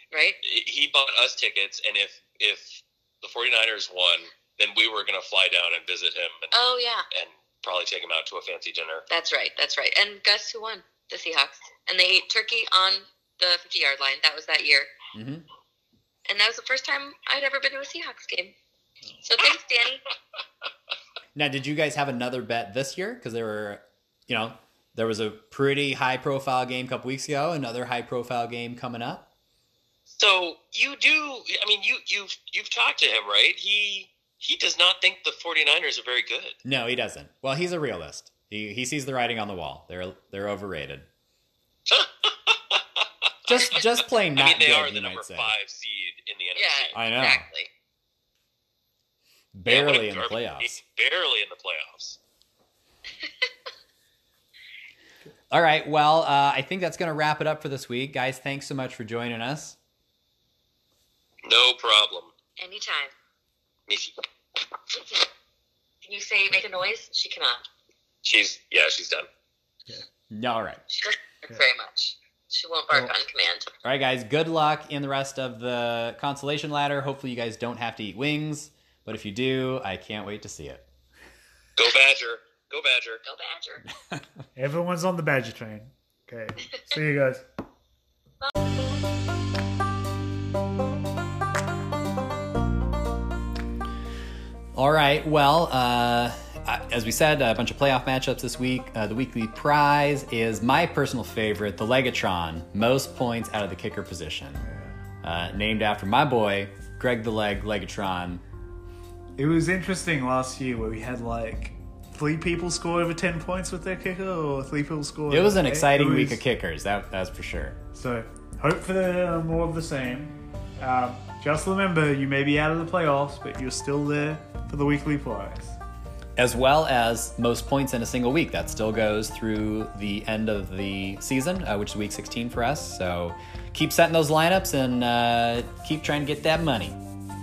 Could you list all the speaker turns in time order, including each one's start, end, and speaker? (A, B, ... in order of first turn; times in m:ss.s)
0:00.1-0:00.4 A
0:00.4-0:06.5 B
0:06.5-0:07.0 A
0:07.1-0:09.1 B
0:09.1-0:14.9 A
0:15.1-0:15.5 C
0:16.3-0:18.5 A
0:19.2-0:20.0 A
0:21.4-0:29.3 C
0:30.1-0:36.6 B
0:36.6-0:41.1 C
0:41.9-0:47.0 B
0:43.5-0:45.5 C
0:46.6-0:47.7 A
0:46.9-0:47.5 C
0:49.5-0:50.8 C
0:49.7-0:52.2 B
0:55.5-0:59.8 C
1:01.4-1:02.3 B
1:02.6-1:03.1 A
1:03.9-1:04.1 B
1:04.9-1:05.3 A
1:06.0-1:07.6 A
1:08.2-1:09.3 B
1:10.3-1:10.8 C
1:10.9-1:13.7 A
1:13.8-1:20.9 C
1:21.8-1:23.2 B
1:23.2-1:23.8 A
1:24.6-1:27.4 D
1:34.8-1:44.7 C
1:44.6-1:45.0 D
1:45.2-1:48.4 C
1:49.4-1:56.4 D
1:55.3-1:57.8 C
1:57.9-2:05.8 D
2:06.4-2:17.0 C